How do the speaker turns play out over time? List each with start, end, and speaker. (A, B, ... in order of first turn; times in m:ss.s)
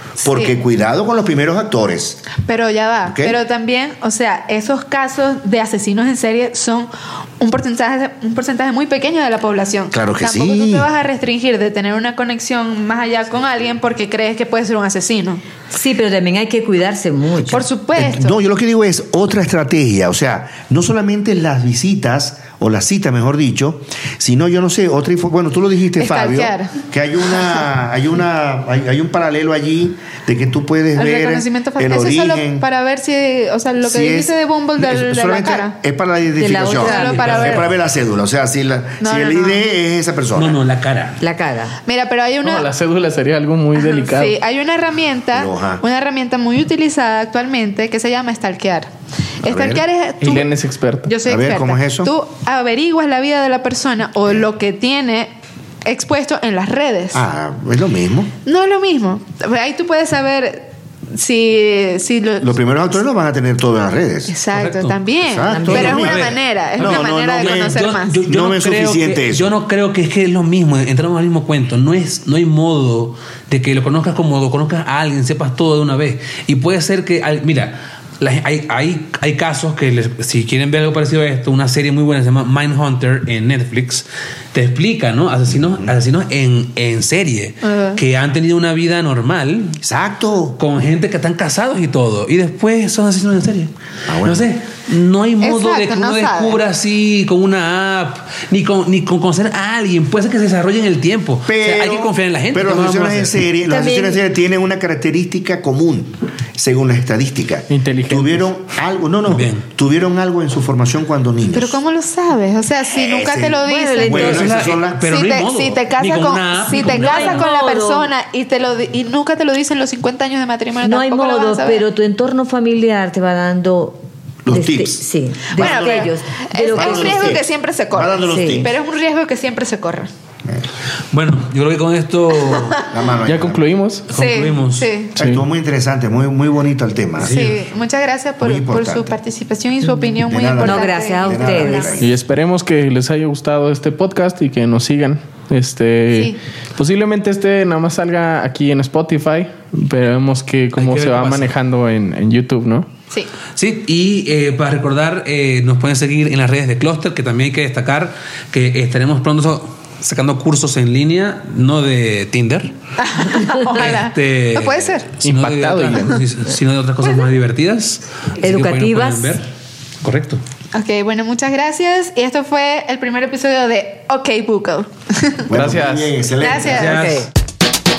0:00.2-0:00.6 A
0:00.2-0:02.2 B
0:02.4-0:15.4 A
0:03.0-0:03.4 B
0:09.9-0:10.9 B
0:15.7-0:17.6 C
0:17.5-0:18.4 A
0:18.0-0:32.6 B
0:26.0-0:26.7 A
0:31.0-0:35.7 A
0:33.8-0:40.6 B
0:36.4-0:37.4 C
0:36.6-0:37.7 A
0:36.8-0:37.7 D
0:39.0-0:39.6 A
0:40.3-0:41.2 D
0:41.2-0:41.8 C
0:41.8-0:42.7 A
0:42.4-0:44.4 E
0:43.7-0:48.9 A
0:45.3-0:45.8 B
0:49.4-0:50.5 A
0:49.4-0:49.8 B
0:50.2-0:51.1 E
0:51.0-0:55.3 A
0:51.2-0:52.1 B
0:55.8-0:57.2 A
0:57.1-0:58.3 B
0:58.4-1:02.6 A
1:02.4-1:04.4 B
1:04.3-1:08.2 A
1:04.5-1:05.0 D
1:05.2-1:09.5 B
1:05.5-1:06.0 C
1:05.7-1:29.8 D
1:25.5-1:25.9 B
1:27.6-1:28.0 A
1:29.8-1:30.6 B
1:30.6-1:43.4 D
1:34.1-1:34.5 B
1:35.4-1:36.6 A
1:41.4-1:51.8 B
1:43.7-1:44.2 C
1:47.7-1:48.4 E
1:49.3-1:49.6 D
1:51.5-2:01.8 A
1:52.9-1:55.0 B
1:53.6-1:54.6 C
1:54.1-1:57.4 D
1:56.8-1:58.1 C
2:00.8-2:07.4 C
2:04.4-2:06.1 B
2:05.5-2:10.1 A
2:06.7-2:08.8 B
2:08.2-2:08.7 C
2:11.1-2:12.8 D
2:12.5-2:12.8 A
2:12.9-2:13.6 B
2:13.2-2:14.1 E
2:14.1-2:14.9 D
2:14.1-2:15.2 A
2:15.2-2:15.4 E
2:15.2-2:17.6 B
2:17.2-2:22.0 A
2:18.4-2:19.1 B
2:19.8-2:22.1 C
2:20.2-2:22.1 B
2:22.0-2:32.9 E
2:26.1-2:26.4 A
2:30.8-2:31.5 D
2:33.6-2:42.7 D
2:43.0-2:45.1 A
2:43.5-2:49.4 D
2:45.2-2:46.2 E
2:48.4-2:49.4 C
2:50.0-2:50.4 D
2:50.7-2:55.5 A
2:55.5-2:57.0 B
2:55.5-2:56.1 E
2:56.4-2:57.1 A
2:56.6-2:57.2 D
2:56.8-2:57.3 C